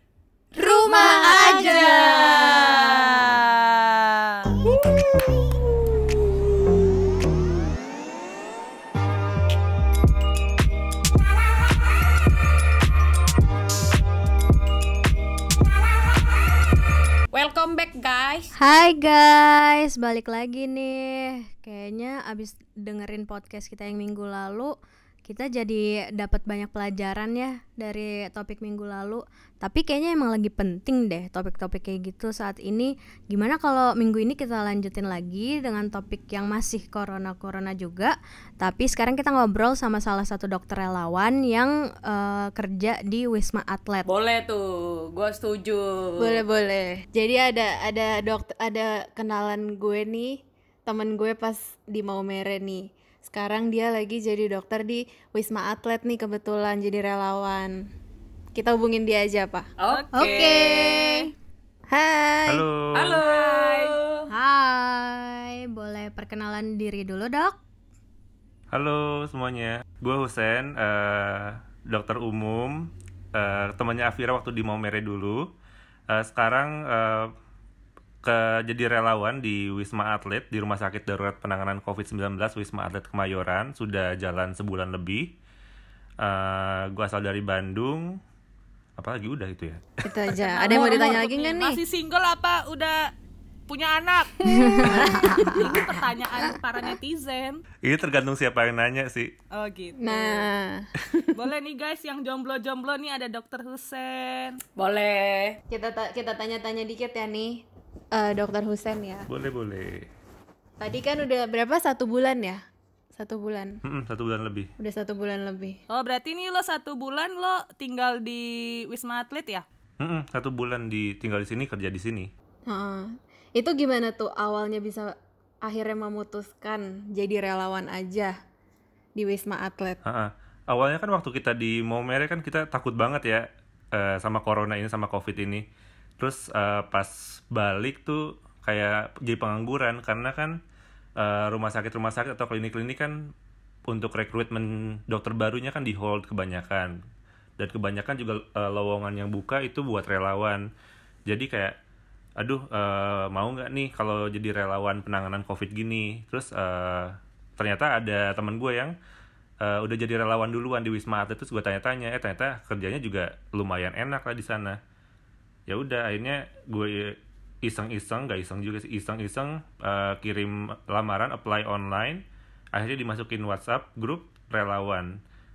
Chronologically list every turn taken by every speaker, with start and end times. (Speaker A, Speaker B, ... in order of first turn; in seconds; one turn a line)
Speaker A: 0.6-2.4
Speaker B: 0.6-2.9
Speaker C: 0.9-4.6
Speaker B: 17.3-18.5
Speaker D: 18.6-24.7
Speaker D: 25.2-44.1
Speaker B: 44.0-46.4
Speaker A: 46.2-57.9
Speaker A: 58.5-59.7
Speaker B: 59.8-61.3
Speaker C: 59.9-60.6
Speaker D: 60.1-61.3
Speaker A: 61.9-62.7
Speaker E: 62.5-63.2
Speaker B: 62.9-64.3
Speaker D: 64.3-67.6
Speaker E: 68.7-75.5
Speaker E: 76.1-77.3
Speaker E: 78.2-85.3
Speaker E: 86.2-88.2
Speaker E: 89.0-90.3
Speaker A: 90.0-91.8
Speaker C: 90.3-93.1
Speaker C: 93.7-97.6
Speaker A: 94.5-96.0
Speaker D: 94.6-95.4
Speaker E: 97.8-99.3
Speaker C: 99.5-100.5
Speaker A: 100.0-101.3
Speaker C: 101.3-104.6
Speaker B: 104.8-105.6
Speaker A: 105.7-109.3
Speaker E: 109.3-110.1
Speaker A: 110.8-112.6
Speaker A: 113.1-113.8
Speaker E: 113.8-114.7
Speaker A: 114.8-115.8
Speaker C: 115.9-119.6
Speaker E: 120.0-122.3
Speaker A: 122.7-128.3
Speaker A: 129.2-130.0
Speaker E: 130.0-135.7
Speaker E: 136.2-140.6
Speaker E: 141.2-143.3
Speaker E: 143.9-146.9
Speaker E: 147.6-150.6
Speaker E: 151.3-151.8
Speaker E: 152.4-158.9
Speaker E: 159.6-164.8
Speaker E: 165.7-172.2
Speaker E: 172.7-175.2